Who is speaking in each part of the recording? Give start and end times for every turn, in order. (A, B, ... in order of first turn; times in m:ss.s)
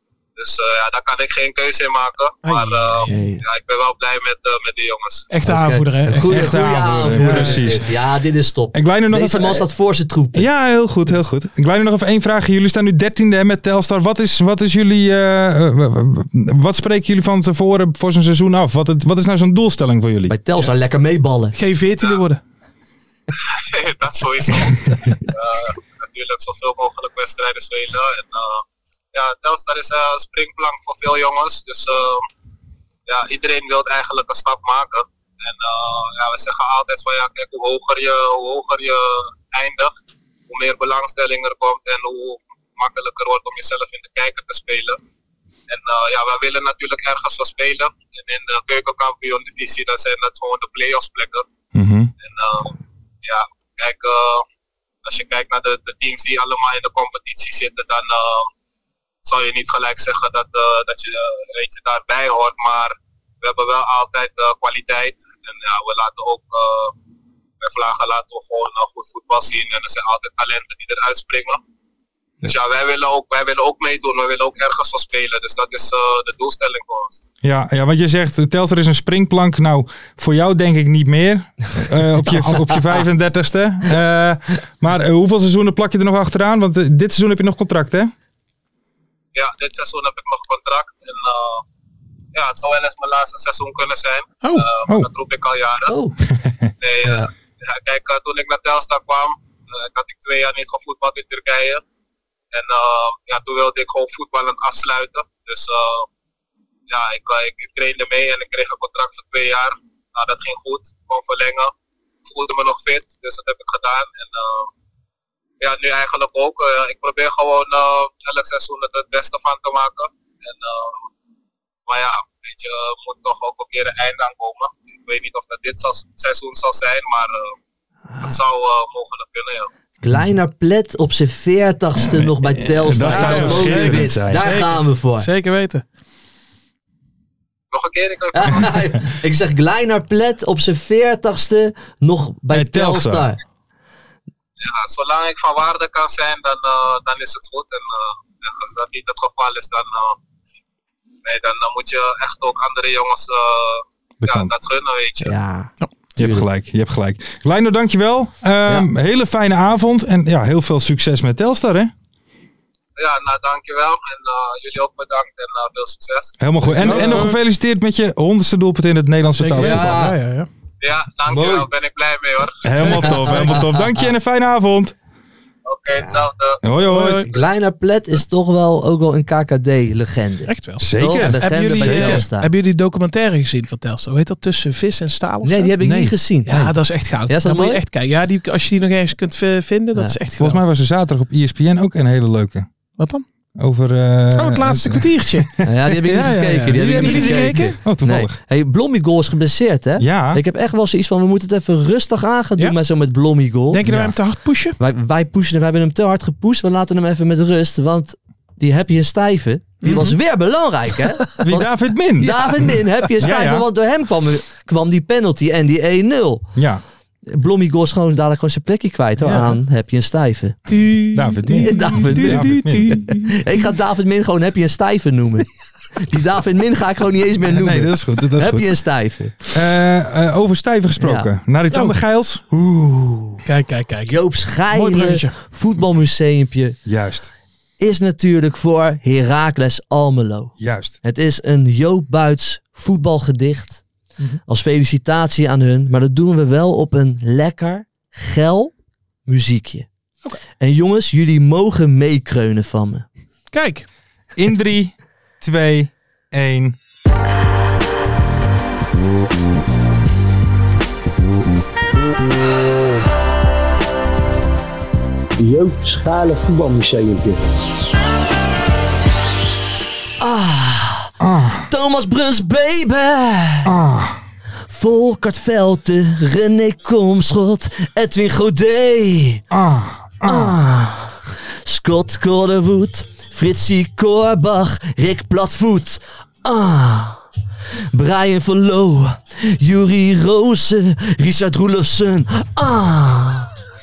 0:00.4-0:05.3 A
0:02.4-0:03.2 B
0:03.1-0:03.4 C
0:05.3-0:06.6 B
0:05.4-0:10.5 C
0:06.2-0:08.0 D
0:07.1-0:07.8 B
0:08.7-0:09.7 D
0:10.3-0:20.4 D
0:20.3-0:21.6 C
0:21.6-0:22.4 B
0:23.3-0:32.3 A
0:33.1-0:39.9 A
0:40.5-0:45.0 A
0:45.7-0:51.5 A
0:51.7-0:52.1 D
0:52.2-0:54.4 A
0:55.0-0:58.5 A
0:59.2-1:06.9 A
1:07.6-1:11.6 A
1:12.4-1:17.2 A
1:17.4-1:28.1 D
1:29.3-1:31.6 A
1:32.3-1:36.0 A
1:35.9-1:36.2 C
1:36.4-1:36.7 D
1:36.8-1:41.8 A
1:37.0-1:37.3 C
1:42.5-1:46.1 A
1:46.9-1:51.7 A
1:52.2-1:54.7 A
1:55.6-2:01.1 A
2:01.9-2:07.6 A
2:08.2-2:09.7 A
2:10.0-2:15.3 C
2:12.0-2:14.5 D
2:13.0-2:15.8 B
2:17.7-2:18.8 A
2:18.3-2:23.4 C
2:22.5-2:23.3 D
2:24.6-2:30.2 A
2:31.2-2:35.3 A
2:34.2-2:34.5 D
2:35.2-2:36.5 C
2:36.2-2:41.9 D
2:43.0-2:46.4 A
2:46.4-2:50.1 D
2:46.8-2:47.4 B
2:46.8-2:47.3 C
2:49.4-2:50.5 B
2:49.6-2:50.2 C
2:50.8-2:52.7 A
2:51.3-2:51.7 C
2:52.6-2:55.0 D
2:52.8-2:53.6 B
2:52.8-2:54.1 C
2:55.7-2:56.7 A
2:56.6-2:57.3 D
2:56.8-2:57.3 B
2:57.3-3:02.5 C
3:00.5-3:05.7 B
3:00.8-3:02.3 D
3:05.4-3:06.6 C
3:05.8-3:06.8 D
3:06.5-3:10.6 B
3:07.3-3:07.8 C
3:10.4-3:12.7 D
3:13.0-3:13.2 B
3:13.6-3:15.5 D
3:14.4-3:17.8 B
3:15.6-3:23.8 C
3:16.1-3:18.4 D
3:20.0-3:20.4 D
3:23.7-3:24.8 B
3:23.8-3:24.2 D
3:24.8-3:31.7 C
3:29.8-3:30.2 B
3:31.4-3:33.7 D
3:32.2-3:36.5 C
3:36.6-3:36.8 D
3:37.3-3:40.6 C
3:39.2-3:39.6 B
3:40.7-3:43.4 B
3:41.1-3:43.0 D
3:41.5-3:49.4 C
3:47.4-3:48.7 D
3:49.5-3:52.4 D
3:51.0-3:51.3 C
3:52.5-3:53.4 C
3:53.5-3:55.4 B
3:54.0-3:56.8 C
3:56.9-3:57.3 D
3:57.8-4:03.8 C
4:00.6-4:01.0 D
4:04.5-4:08.7 C
4:09.3-4:09.9 C
4:10.6-4:13.0 C
4:13.5-4:13.9 B
4:14.4-4:16.8 D
4:25.4-4:27.4 E
4:30.2-4:31.1 C
4:31.2-4:31.7 D
4:31.7-4:33.7 C
4:33.6-4:34.2 D
4:34.7-4:39.4 C
4:39.5-4:40.6 D
4:40.2-4:47.2 C
4:47.9-4:53.5 C